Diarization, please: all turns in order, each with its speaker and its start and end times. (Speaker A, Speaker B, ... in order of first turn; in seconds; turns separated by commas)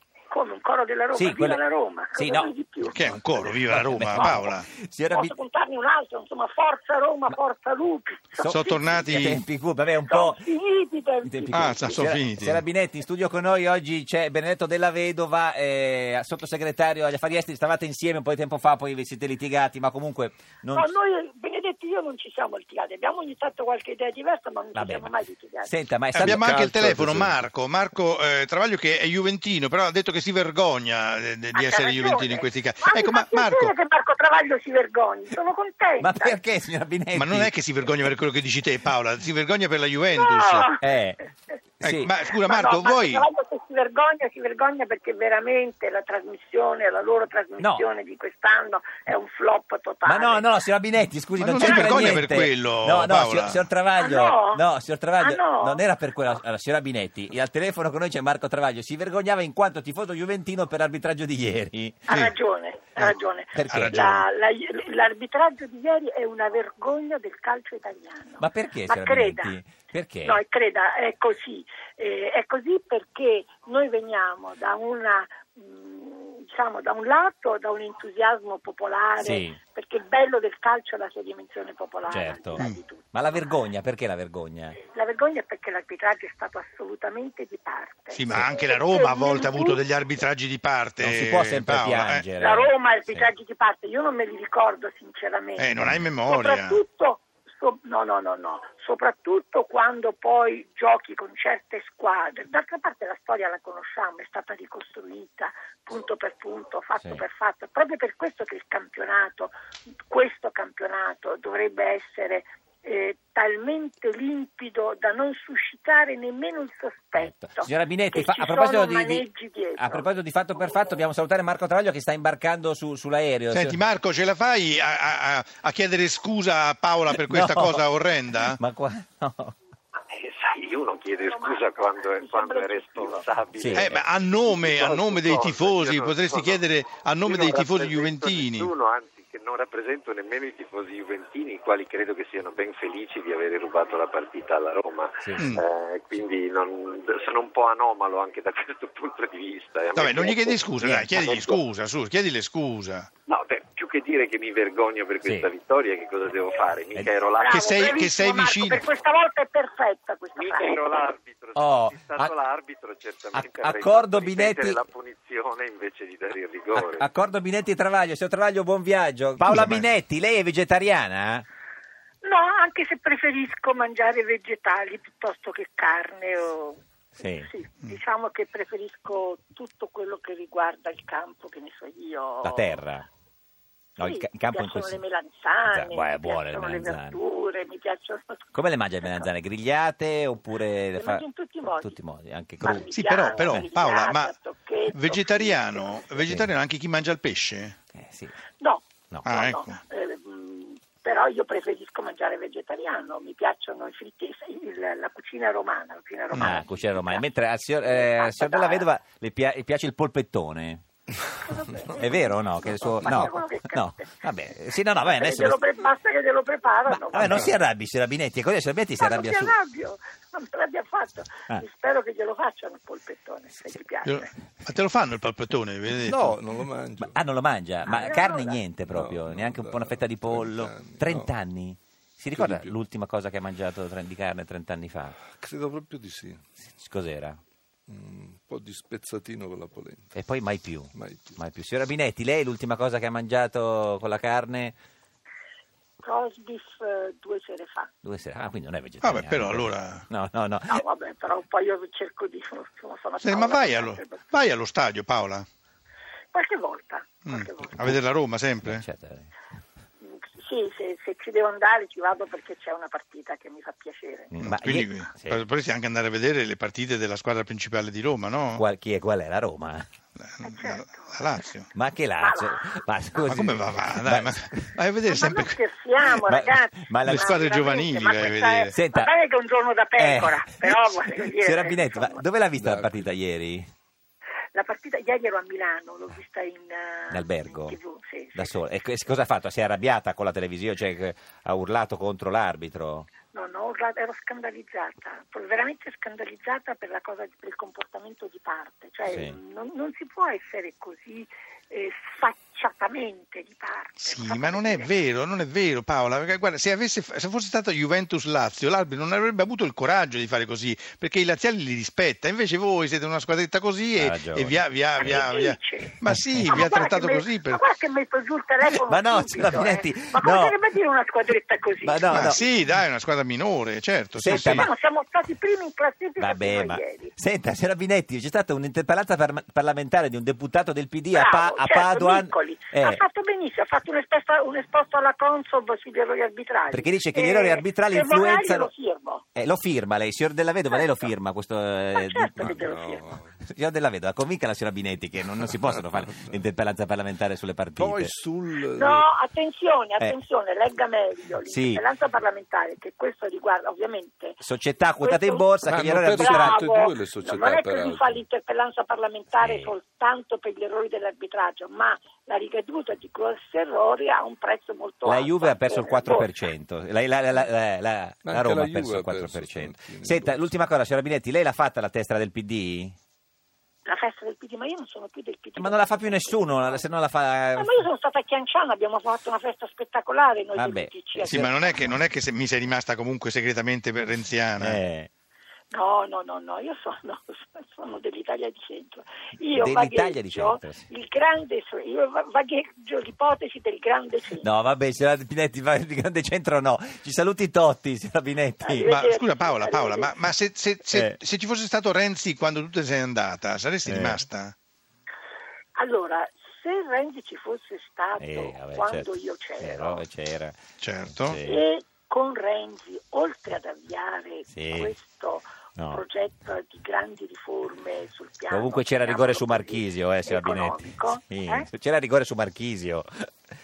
Speaker A: 0.3-3.3, Speaker B: 1.1-1.6, Speaker B: 2.1-5.3, Speaker C: 2.9-4.7, Speaker A: 5.1-8.8, Speaker B: 8.4-10.4, Speaker C: 8.5-9.4, Speaker A: 10.1-12.0, Speaker B: 11.2-20.9, Speaker C: 11.5-12.6, Speaker A: 20.7-25.7, Speaker B: 24.7-25.1, Speaker B: 25.6-27.3, Speaker C: 26.1-33.7, Speaker D: 26.2-27.2, Speaker A: 31.5-36.4, Speaker B: 36.0-37.5, Speaker C: 37.1-40.7, Speaker A: 40.1-40.8, Speaker B: 40.8-41.2, Speaker B: 41.8-42.1, Speaker C: 41.8-43.2, Speaker A: 42.4-50.5, Speaker B: 50.0-62.0, Speaker C: 51.4-53.7, Speaker A: 51.6-52.1, Speaker A: 54.0-54.6, Speaker A: 55.2-56.3, Speaker A: 62.1-69.5, Speaker C: 62.1-62.3, Speaker B: 63.5-64.2, Speaker C: 63.7-64.2, Speaker B: 68.4-70.4, Speaker A: 70.2-83.0, Speaker B: 79.2-79.6, Speaker B: 82.1-84.8, Speaker A: 84.8-89.8, Speaker C: 88.1-92.2, Speaker B: 91.0-93.3, Speaker A: 92.4-95.7, Speaker C: 95.6-96.8, Speaker A: 96.2-109.5, Speaker A: 110.1-120.2, Speaker B: 117.6-123.8, Speaker C: 123.5-128.6, Speaker B: 127.1-127.8, Speaker B: 128.4-129.5, Speaker E: 130.2-133.8, Speaker A: 131.3-133.3, Speaker B: 133.6-134.0, Speaker C: 133.7-138.7, Speaker E: 134.8-136.6, Speaker E: 137.3-150.6, Speaker B: 145.2-145.5, Speaker C: 145.4-145.6, Speaker C: 149.9-153.1, Speaker B: 150.8-151.2, Speaker E: 153.3-157.5, Speaker B: 155.2-155.5, Speaker A: 157.4-160.8, Speaker C: 157.5-158.8, Speaker E: 160.6-167.0, Speaker B: 161.5-162.3, Speaker B: 163.3-164.8, Speaker B: 166.7-171.4, Speaker C: 169.4-169.9, Speaker A: 172.2-176.8, Speaker B: 177.2-177.5, Speaker A: 177.4-182.8, Speaker B: 182.4-183.1, Speaker B: 184.0-185.0, Speaker A: 184.0-188.5, Speaker B: 185.7-187.2, Speaker B: 188.5-193.6, Speaker A: 189.0-189.3, Speaker A: 191.0-192.0, Speaker A: 192.6-196.2, Speaker C: 192.7-194.3, Speaker C: 194.9-197.8, Speaker B: 197.9-198.3, Speaker A: 198.6-207.2, Speaker C: 199.2-199.8, Speaker C: 206.3-206.6, Speaker B: 206.3-210.8, Speaker A: 207.8-208.9, Speaker A: 211.4-214.2, Speaker B: 211.9-215.6, Speaker A: 215.1-217.6, Speaker B: 216.9-219.5, Speaker A: 219.0-224.3, Speaker C: 224.0-226.3, Speaker D: 226.0-227.2, Speaker B: 227.0-235.2, Speaker A: 227.8-228.6, Speaker D: 228.8-231.4, Speaker D: 232.3-232.8, Speaker D: 235.3-236.4, Speaker B: 236.7-237.4, Speaker D: 237.9-240.2, Speaker B: 240.1-244.7, Speaker D: 240.9-241.4, Speaker A: 246.0-247.9, Speaker B: 248.0-250.8, Speaker C: 249.0-250.0, Speaker A: 250.7-254.2, Speaker C: 253.2-255.4, Speaker A: 256.3-257.9, Speaker C: 257.2-258.9, Speaker B: 258.6-259.3, Speaker A: 260.0-264.3, Speaker B: 264.3-265.4, Speaker C: 264.4-268.6, Speaker B: 268.6-269.9, Speaker C: 270.2-271.7, Speaker A: 270.4-271.5, Speaker B: 271.7-274.7, Speaker A: 272.2-273.3, Speaker C: 273.3-275.6, Speaker A: 275.1-282.2, Speaker B: 276.2-277.4, Speaker C: 277.0-278.7, Speaker B: 278.7-279.1, Speaker B: 280.0-283.7, Speaker D: 282.6-283.1, Speaker A: 284.5-288.6, Speaker B: 287.1-287.7, Speaker B: 288.3-293.1, Speaker A: 293.3-304.9, Speaker B: 299.1-299.4, Speaker C: 304.0-317.6, Speaker B: 314.0-315.2, Speaker A: 315.0-315.9, Speaker B: 316.0-316.7, Speaker A: 316.5-322.4, Speaker B: 318.6-320.6, Speaker B: 321.8-322.4, Speaker C: 322.1-324.7, Speaker B: 324.1-324.7, Speaker A: 324.3-327.1, Speaker B: 326.2-333.0, Speaker A: 331.1-339.2, Speaker B: 336.7-338.7, Speaker B: 339.3-342.7, Speaker A: 341.9-343.1, Speaker D: 342.4-343.4, Speaker B: 343.4-348.1, Speaker D: 345.2-346.4, Speaker D: 347.7-349.1, Speaker A: 348.7-354.4, Speaker B: 351.4-351.8, Speaker B: 354.4-356.7, Speaker A: 355.0-355.5, Speaker D: 355.6-358.2, Speaker A: 356.1-366.3, Speaker B: 359.4-359.7, Speaker B: 365.0-372.9, Speaker D: 368.2-370.5, Speaker A: 373.8-376.9, Speaker B: 375.6-377.7, Speaker A: 377.6-381.7, Speaker B: 380.5-381.9, Speaker C: 381.2-384.8, Speaker B: 384.6-385.1, Speaker A: 385.7-394.5, Speaker B: 389.5-390.8, Speaker B: 394.4-398.9, Speaker A: 398.6-400.1, Speaker C: 398.8-404.5, Speaker B: 403.9-404.2, Speaker A: 405.8-410.0, Speaker B: 408.2-410.6, Speaker C: 410.8-411.4, Speaker B: 411.2-411.6, Speaker A: 411.4-421.7, Speaker B: 414.5-414.9, Speaker B: 418.5-423.3